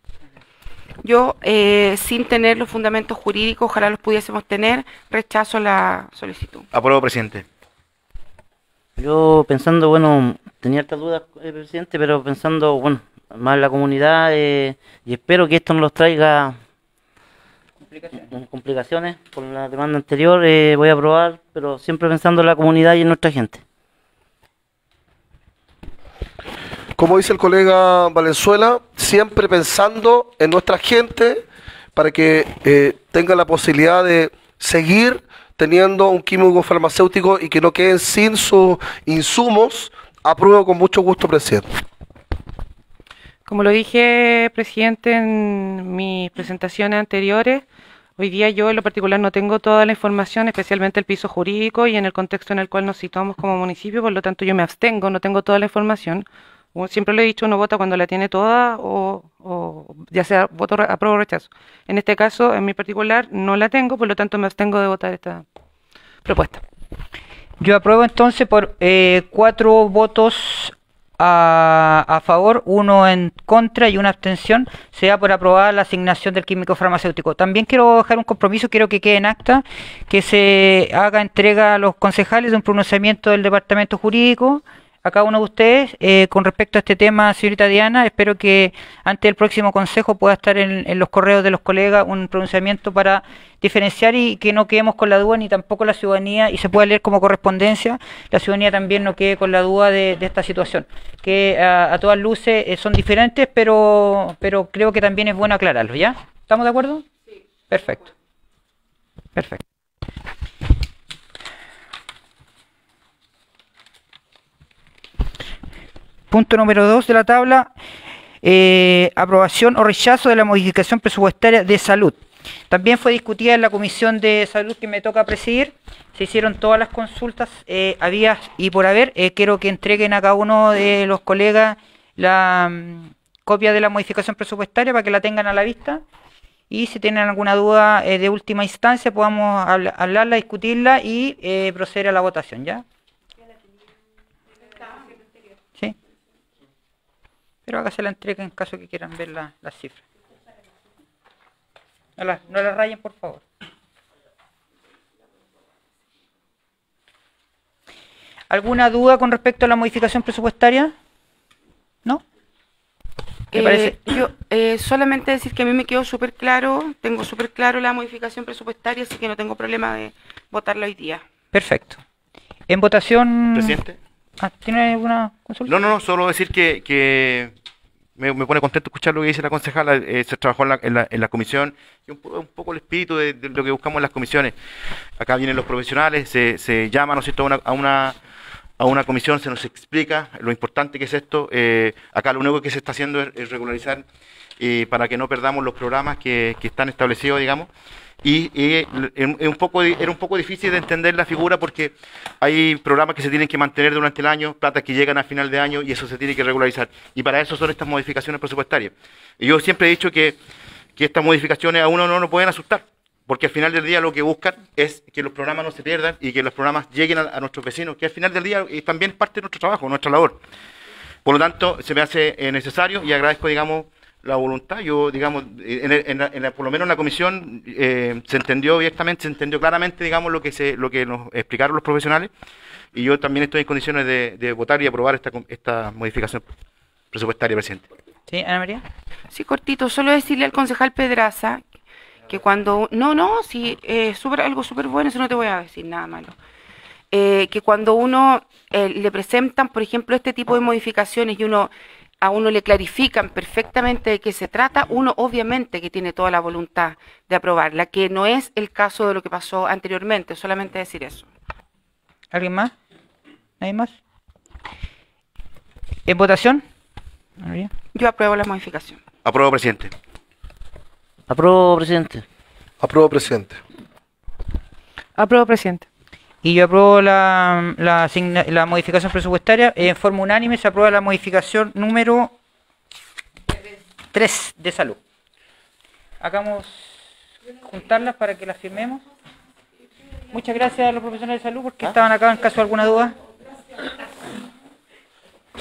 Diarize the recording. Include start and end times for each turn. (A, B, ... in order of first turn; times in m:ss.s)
0:01.0-0:06.7 A
0:06.7-0:07.5 B
0:09.0-0:16.6 C
0:17.9-0:18.3 D
0:18.3-0:23.6 C
0:27.0-0:31.4 E
0:32.0-0:41.7 E
0:43.5-0:47.6 F
0:48.2-1:05.4 F
1:06.2-1:06.6 F
1:07.6-1:47.1 D
1:47.7-1:48.1 D
1:49.4-1:49.6 D
1:56.3-1:57.7 D
1:58.4-2:16.0 D
2:16.7-2:22.8 D
2:27.7-2:30.0 D
2:32.2-2:33.4 D
2:38.5-2:41.0 D
2:43.5-2:51.2 A
2:43.5-2:44.0 D
2:51.5-2:52.0 D
2:52.7-2:53.8 D
2:53.5-2:54.0 B
2:54.4-2:55.7 D
2:55.7-2:57.5 B
2:58.2-3:04.6 B
3:05.2-3:08.2 B
3:08.8-3:14.0 B
3:14.6-3:17.7 B
3:18.2-3:30.4 B
3:31.0-3:40.4 B
3:41.2-3:52.3 B
3:52.9-3:56.4 B
3:57.1-3:57.9 B
3:58.3-3:58.8 D
3:59.3-4:01.6 A
4:02.3-4:06.4 A
4:07.1-4:21.3 A
4:22.3-4:22.7 D
4:23.6-4:24.0 D
4:26.1-4:26.6 D
4:27.4-4:27.7 D
4:27.9-4:29.0 A
4:29.2-4:29.9 B
4:31.3-4:32.2 C
4:32.8-4:33.6 E
4:35.2-4:35.9 F
4:36.4-4:42.3 D
4:44.1-4:45.0 D
4:46.2-4:49.0 D
4:50.3-4:53.1 D